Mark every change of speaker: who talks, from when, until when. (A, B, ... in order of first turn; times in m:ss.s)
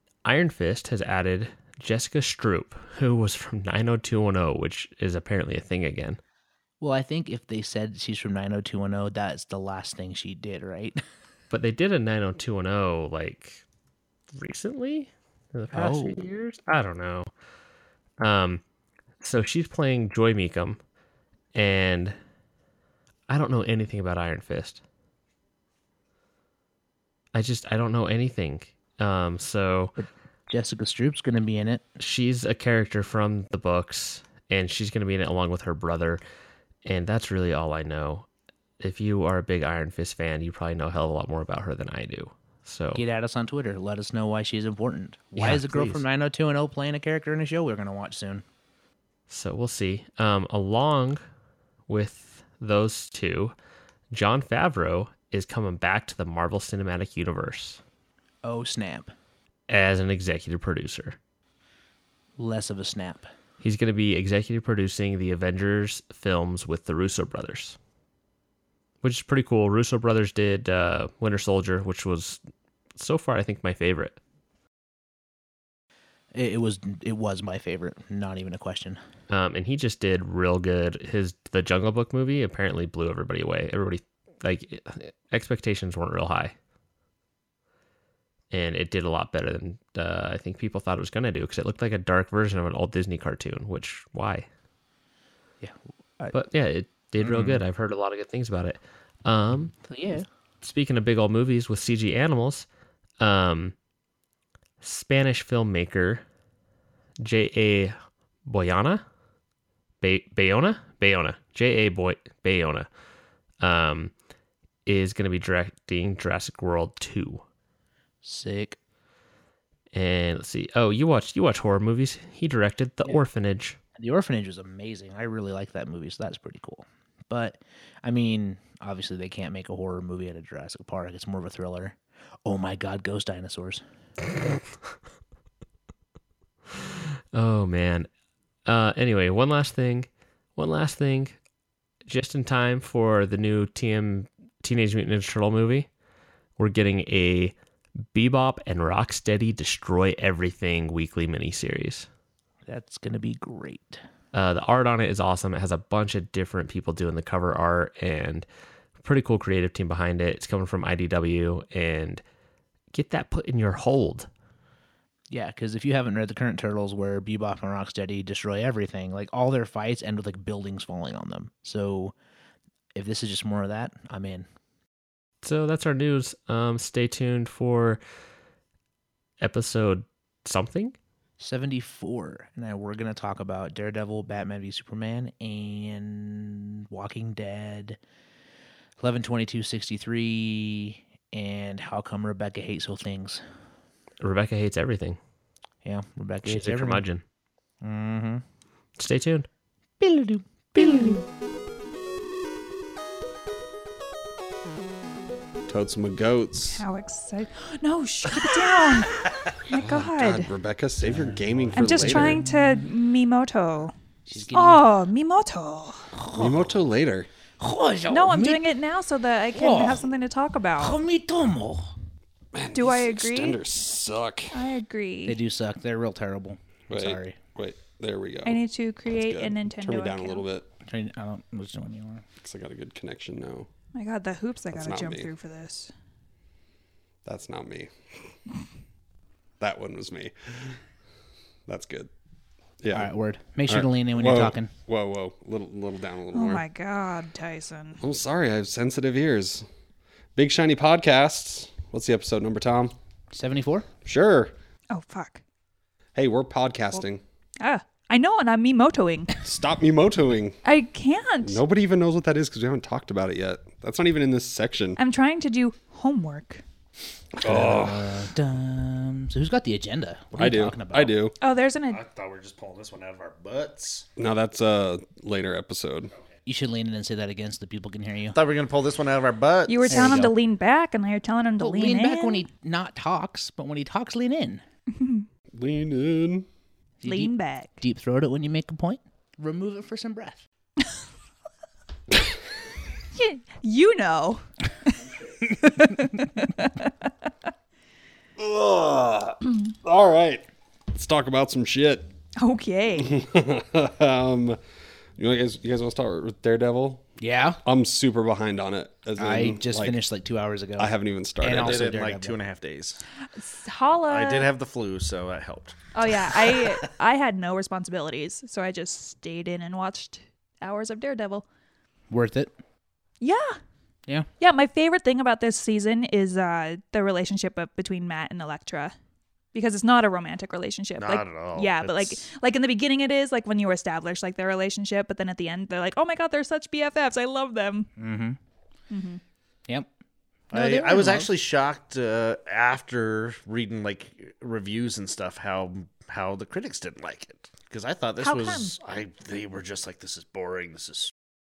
0:00.2-0:06.2 A
0:06.8-0:11.0 B
0:11.5-0:13.6 A
0:14.3-0:17.3 A
0:15.7-0:16.2 B
0:18.2-0:18.6 A
0:19.2-0:20.8 A
0:21.5-0:22.2 A
0:23.3-0:24.8 A
0:27.3-0:30.0 A
0:30.0-0:31.8 B
0:32.0-0:36.2 A
0:36.8-0:38.3 A
0:38.8-0:43.0 A
0:42.9-0:48.4 B
0:45.4-0:46.0 A
0:49.3-0:51.2 A
0:51.9-0:53.5 A
0:54.1-0:57.8 A
0:58.4-0:59.1 B
0:59.7-1:01.2 A
1:02.4-1:03.3 B
1:03.6-1:07.8 A
1:09.0-1:12.4 A
1:13.0-1:14.2 A
1:16.3-1:19.0 B
1:19.3-1:26.5 A
1:28.5-1:34.5 A
1:35.6-1:36.4 B
1:36.3-1:39.7 A
1:37.2-1:37.6 B
1:39.9-1:40.3 B
1:40.6-1:42.7 A
1:43.2-1:43.7 A
1:44.8-1:46.2 A
1:47.2-1:48.0 A
1:48.5-1:49.0 A
1:50.0-1:52.9 A
1:53.6-1:54.1 A
1:54.9-1:57.4 A
1:58.2-1:58.8 B
1:59.9-2:03.8 A
2:04.0-2:13.8 B
2:17.3-2:18.1 A
2:18.7-2:21.4 A
2:22.1-2:25.9 A
2:26.6-2:27.6 A
2:28.1-2:32.1 A
2:32.7-2:34.0 B
2:34.3-2:38.5 A
2:39.0-2:42.2 A
2:42.9-2:44.3 A
2:45.3-2:52.1 B
2:53.0-2:54.5 B
2:55.4-2:58.0 A
2:59.4-3:01.0 A
3:01.4-3:08.0 B
3:09.0-3:13.4 B
3:14.2-3:15.2 A
3:15.8-3:17.0 B
3:16.4-3:17.2 A
3:17.8-3:18.4 B
3:19.0-3:19.5 A
3:20.0-3:21.2 B
3:25.7-3:26.8 C
3:26.7-3:30.5 D
3:29.7-3:32.4 C
3:31.1-3:32.3 B
3:31.7-3:33.9 D
3:34.3-3:34.8 B
3:34.5-3:36.1 D
3:36.2-3:36.6 B
3:36.4-3:37.3 C
3:37.6-3:38.7 B
3:38.1-3:41.0 D
3:39.5-3:40.0 B
3:40.8-3:41.9 B
3:42.5-3:44.6 C
3:42.7-3:43.6 D
3:44.5-3:45.4 D
3:45.3-3:47.4 B
3:46.9-3:48.6 C
3:48.4-3:50.4 D
3:49.2-3:50.7 C
3:50.8-3:52.2 B
3:52.4-3:53.7 C
3:54.0-3:55.9 D
3:54.7-3:55.3 C
3:57.2-3:58.3 C
3:59.6-4:00.8 C
4:01.7-4:02.1 C
4:02.8-4:03.1 C
4:02.9-4:04.7 B
4:03.7-4:06.6 C
4:06.3-4:08.0 D
4:08.0-4:09.7 C
4:10.4-4:12.9 C
4:13.3-4:13.9 B
4:14.0-4:14.5 C
4:14.9-4:15.4 D
4:16.2-4:17.2 C
4:17.6-4:19.4 D
4:19.4-4:20.6 C
4:20.6-4:21.6 D
4:21.4-4:25.0 C
4:25.0-4:26.6 D
4:27.4-4:28.2 C
4:27.4-4:31.2 B
4:30.4-4:31.4 C
4:31.4-4:32.0 D
4:31.9-4:34.1 E
4:34.2-4:36.1 C
4:36.4-4:38.4 B
4:38.3-4:40.3 E
4:39.7-4:42.5 D
4:39.9-4:40.4 B
4:41.6-4:44.6 B
4:44.9-4:45.3 D
4:45.5-4:46.5 C
4:47.0-4:50.4 B
4:47.0-4:47.8 D
4:53.2-4:57.3 D
4:58.4-5:02.1 C
5:02.4-5:03.2 D
5:03.0-5:04.6 C
5:05.2-5:07.1 C
5:07.2-5:07.6 B
5:07.6-5:10.0 C
5:09.2-5:12.4 B
5:10.8-5:11.9 C
5:11.4-5:13.0 E
5:13.4-5:14.5 D
5:14.1-5:16.9 E
5:15.9-5:21.4 D
5:22.1-5:22.5 B
5:23.2-5:23.6 D
5:24.4-5:28.9 D
5:29.5-5:37.9 D
5:31.0-5:32.2 E
5:38.0-5:38.4 B
5:38.9-5:39.2 D
5:40.5-5:41.3 B
5:40.5-5:51.1 E
5:48.2-5:48.7 D